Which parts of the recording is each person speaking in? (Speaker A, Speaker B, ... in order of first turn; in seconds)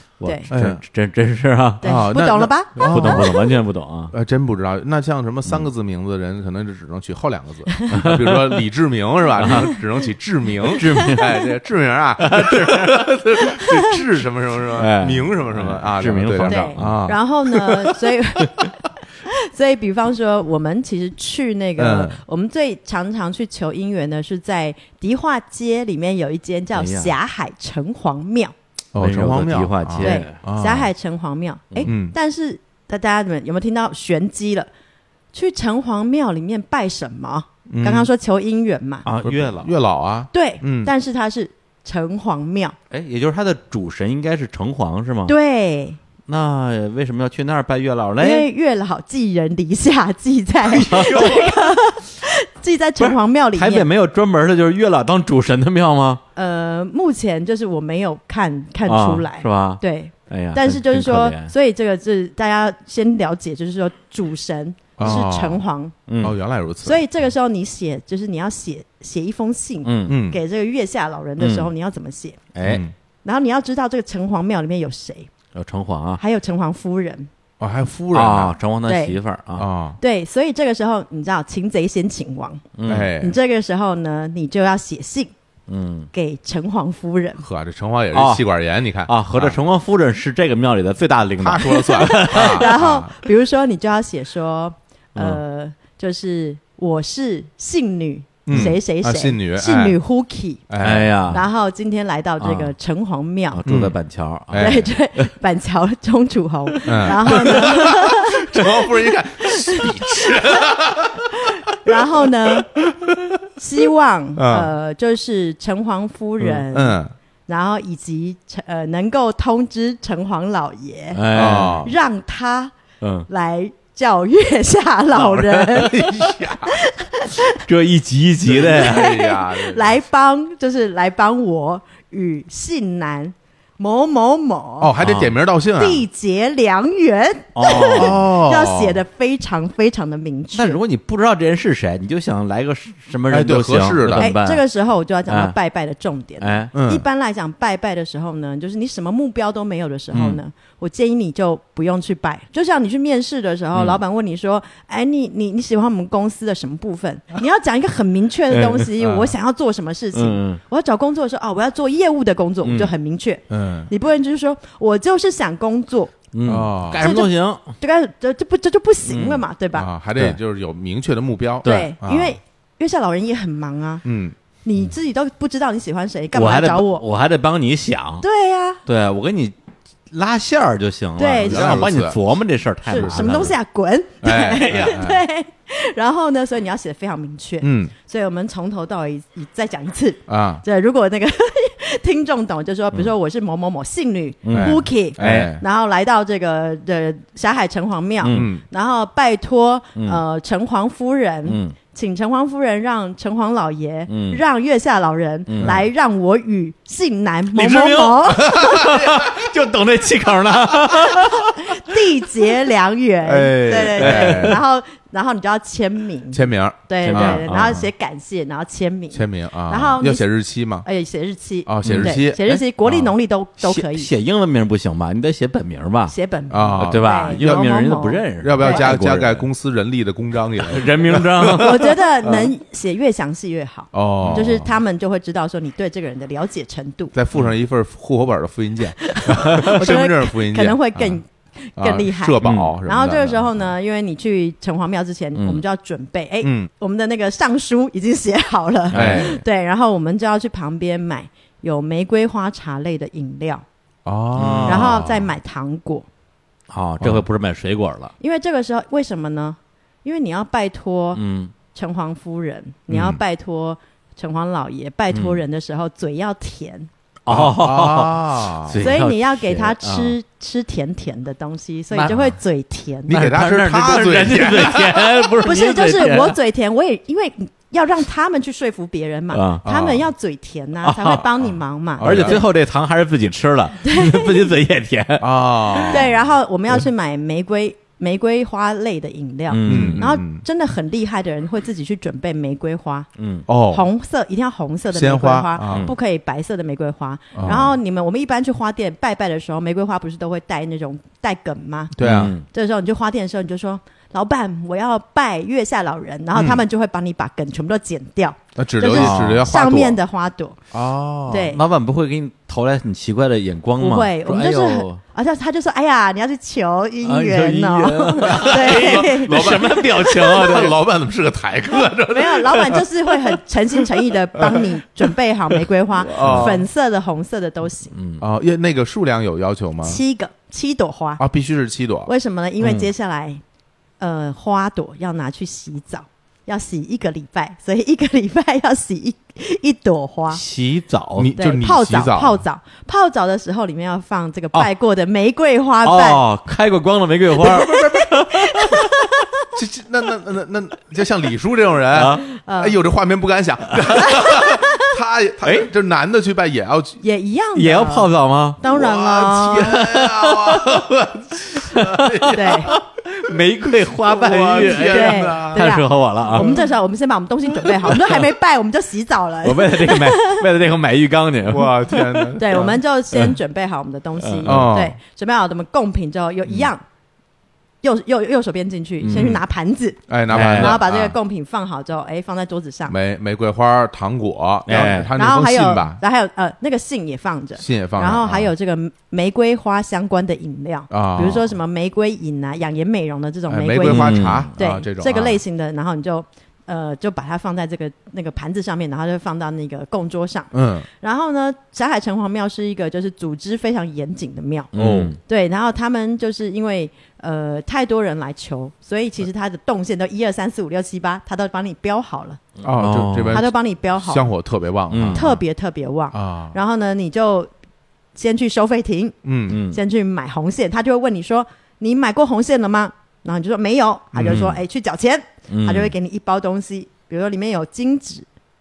Speaker A: 0.2-1.9, 2.8-4.1, 7.9-8.6, 9.4-9.8, 10.7-11.5, 12.2-13.9, 14.8-17.7, 26.7-27.1, 29.0-30.4, 39.0-39.7, 42.9-45.4, 46.3-48.5, 50.7-51.6, 53.0-56.2, 58.9-61.5, 66.1-66.4, 69.8-70.2, 71.4-71.7, 72.5-72.9, 75.5-76.2, 78.1-79.7, 82.8-83.1, 85.7-86.1, 88.1-88.5, 89.1-92.7, 98.5-98.8, 100.8-101.5, 102.4-102.7, 103.5-105.3, 107.3-107.7, 121.1-121.9, 123.0-123.3, 125.1-126.5, 127.7-129.2, 135.0-135.3, 137.6-138.2, 140.6-144.6, 145.3-145.6, 146.4-146.7, 150.1-150.4, 153.8-154.0, 158.5-158.9, 160.1-160.6, 162.6-162.9, 166.3-167.7, 169.1-169.4, 171.7-171.9, 176.3-178.2, 178.9-179.5, 180.1-183.6, 194.4-195.6, 198.2-198.5, 200.0-200.2, 201.5-201.8, 204.1-204.4, 205.5-205.8, 207.5-211.8, 213.9-214.6, 217.0-217.8, 221.8-222.2, 223.6-226.2, 226.8-229.5, 230.7-232.4, 242.4-242.8, 245.4-245.6, 248.9-249.4, 254.4-255.1, 256.7-258.1, 261.1-261.5, 265.1-265.4, 267.3-270.1, 271.9-272.3, 273.1-276.4, 279.3-279.6, 280.8-281.3, 282.0-286.1, 289.5-290.1, 293.2-293.5, 295.7-295.9, 302.0-302.4, 308.9-309.4, 311.4-315.0, 317.0-320.8, 326.1-326.6, 327.9-328.2, 332.6-332.9, 340.3-341.3, 345.8-348.9, 351.9-352.2, 355.4-355.7, 357.6-358.6, 359.5-366.6, 367.6-368.3, 369.4-373.4, 374.2-374.7, 379.0-379.4, 380.3-380.8, 384.7-385.1, 393.8-394.5, 404.7-405.2, 412.7-413.4, 414.9-415.3, 419.5-419.8, 424.3-424.6, 425.5-425.9
Speaker B: 0.2-0.5, 1.8-3.4, 16.4-28.5, 30.0-34.7, 35.3-39.1, 40.3-42.8, 45.3-46.0, 48.2-53.9, 56.4-66.0, 66.8-72.4, 73.2-75.3, 76.2-77.3, 78.9-79.2, 80.0-82.7, 83.2-85.3, 86.1-87.4, 92.0-100.7, 101.3-103.6, 104.6-108.7, 109.5-109.9, 111.8-112.7, 113.6-121.2, 121.8-122.7, 123.3-127.6, 128.7-134.9, 135.8-140.8, 144.2-166.1, 167.0-169.9, 171.6-174.0, 174.7-177.0, 178.2-178.8, 181.2-181.9, 182.9-208.8, 211.6-220.3, 220.8-224.1, 226.1-228.9, 231.5-237.1, 239.0-253.6, 254.7-256.1, 258.2-266.9, 268.8-273.2, 275.4-282.4, 283.8-284.5, 285.9-293.1, 293.7-310.6, 311.3-311.6, 313.8-319.6, 322.1-327.9, 329.8-331.2, 332.1-333.4, 334.0-340.4, 341.4-346.2, 347.4-349.2, 352.3-352.8, 357.0-359.8, 362.3-362.7, 364.6-370.4, 372.4-376.8, 377.8-382.9, 385.2-404.7, 405.3-412.4, 413.3-414.3, 415.1-417.5, 418.1-419.2, 419.7-428.3
Speaker C: 0.5-0.8, 1.8-3.4, 4.1-17.2, 21.8-22.2, 28.9-30.9, 31.9-32.1, 37.7-38.1, 39.2-40.9, 65.0-65.6, 66.2-67.0, 70.1-70.4, 72.6-72.9, 77.6-78.6, 79.6-80.0, 82.9-83.4, 87.4-89.6, 91.4-93.1, 98.5-100.0, 100.7-101.2, 103.7-104.8, 106.8-111.3, 112.8-113.4, 114.4-114.7, 116.7-117.1, 121.3-121.9, 126.2-126.6, 128.4-130.0, 134.8-136.1, 137.9-139.0, 143.3-144.3, 146.7-147.1, 159.0-159.3, 163.5-163.9, 166.4-167.1, 169.7-172.4, 174.0-174.4, 181.4-182.2, 184.2-185.2, 187.6-187.9, 190.3-190.6, 194.5-195.6, 198.3-198.6, 208.6-209.3, 213.2-214.6, 216.3-217.5, 219.1-220.9, 221.7-223.1, 226.5-227.7, 228.4-231.7, 233.9-234.7, 237.1-241.2, 241.8-243.7, 246.4-246.7, 248.9-249.4, 254.1-255.3, 262.9-263.2, 267.3-268.8, 273.1-275.3, 279.6-280.0, 282.0-282.4, 285.2-286.1, 289.7-290.4, 293.5-293.9, 294.9-295.9, 297.4-297.8, 302.0-302.3, 306.3-306.6, 308.6-310.0, 310.7-311.5, 318.3-322.8, 326.1-326.6, 328.2-330.0, 331.2-332.1, 341.1-342.4, 349.6-357.0, 358.6-365.7, 366.3-366.6, 371.5-372.7, 374.4-375.0, 380.1-381.2, 382.9-386.0, 387.6-388.5, 390.9-391.5, 393.5-395.4, 400.5-400.9, 404.8-405.2, 412.6-415.4, 416.1-416.6, 419.2-419.6, 424.1-424.5